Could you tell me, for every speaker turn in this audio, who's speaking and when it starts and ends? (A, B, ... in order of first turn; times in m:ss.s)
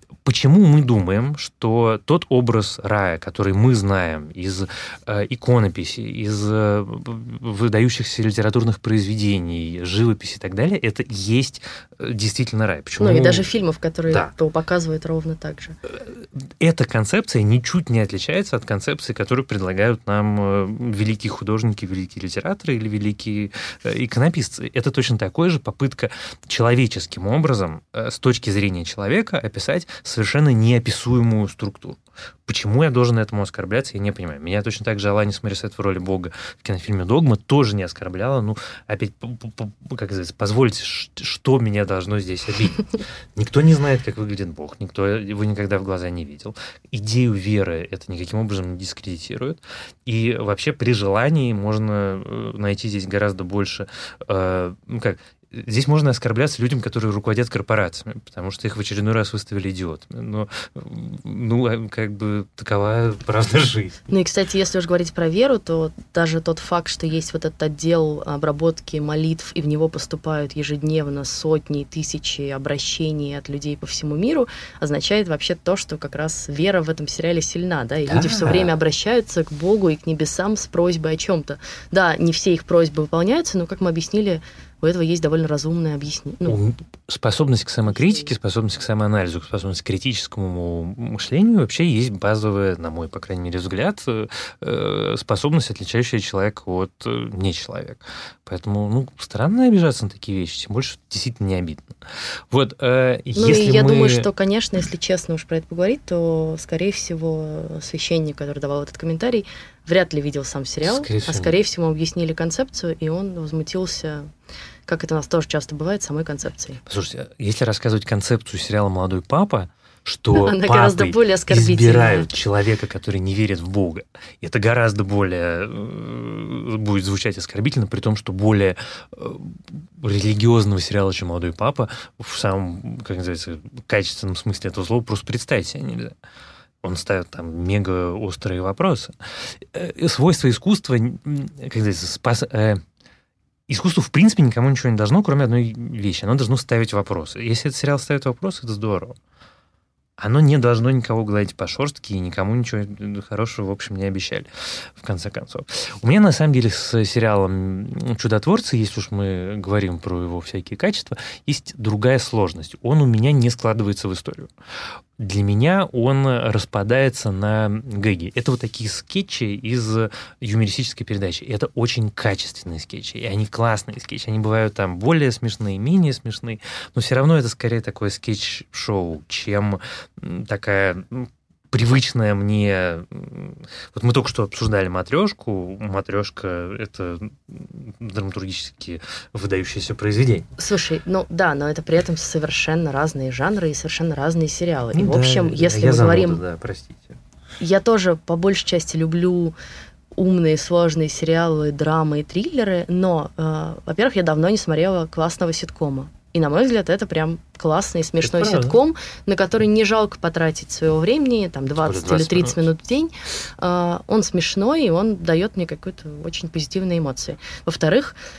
0:00.2-0:13.4 A
0:13.0-0:15.8 B
0:15.9-1:04.0 A
1:04.1-1:26.6 B
1:18.1-1:18.7 A
1:26.4-1:42.0 A
1:27.9-1:28.3 B
1:42.5-1:44.3 A
1:43.3-1:54.3 B
1:50.8-1:51.6 A
1:54.9-1:56.8 B
1:56.9-2:16.2 A
2:00.3-2:02.3 B
2:16.8-2:19.1 A
2:19.7-2:22.8 A
2:23.7-2:29.2 A
2:30.2-2:44.5 A
2:45.2-3:10.4 A
3:10.6-3:16.4 B
3:14.9-3:17.2 A
3:17.6-3:19.5 B
3:20.1-3:38.2 B
3:28.2-3:28.8 A
3:31.8-3:32.7 A